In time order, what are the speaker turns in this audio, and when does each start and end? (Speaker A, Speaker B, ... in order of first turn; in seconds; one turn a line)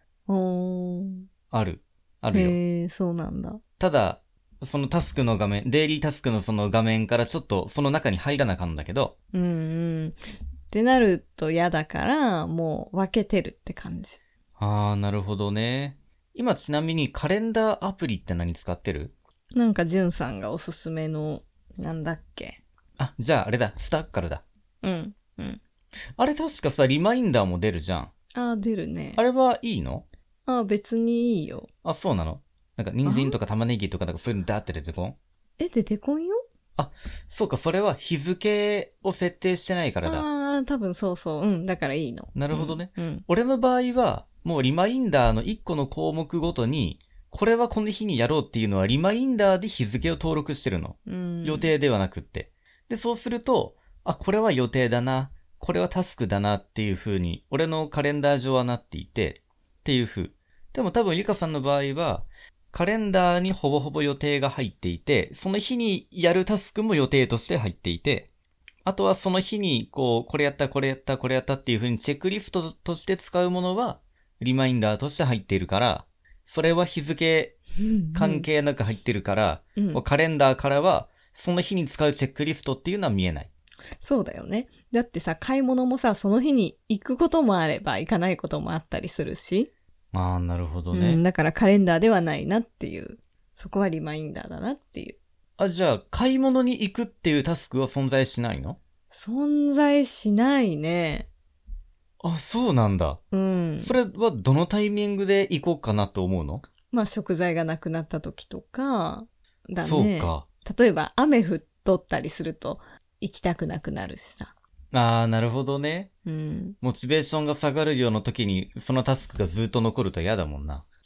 Speaker A: 0.3-1.3
Speaker B: 1.5-2.6
Speaker A: 2.3-3.6
Speaker B: 3.8-9.1
Speaker A: 9.3-10.2
Speaker A: 10.7-14.2
Speaker B: 14.6-19.1
Speaker A: 19.5-22.6
Speaker B: 23.0-24.4
Speaker A: 24.8-25.6
Speaker B: 26.2-28.1
Speaker A: 28.3-29.2
Speaker B: 29.1-30.0
Speaker A: 30.4-31.7
Speaker B: 31.8-35.1
Speaker A: 33.0-33.4
Speaker A: 35.6-36.4
Speaker B: 36.8-40.2
Speaker A: 40.0-43.2
Speaker B: 42.3-68.3
Speaker A: 51.0-51.7
Speaker B: 68.8-77.5
Speaker A: 77.8-78.5
Speaker B: 78.1-83.5
Speaker A: 79.8-80.0
Speaker A: 84.0-89.7
Speaker B: 90.1-91.2
Speaker A: 90.9-95.2
Speaker B: 95.6-98.8
Speaker A: 99.1-101.3
Speaker B: 102.2-103.2
Speaker A: 103.3-104.0
Speaker B: 103.8-106.7
Speaker A: 106.9-114.5
Speaker B: 109.8-110.5
Speaker B: 114.9-116.1
Speaker A: 116.2-116.8
Speaker B: 116.8-120.8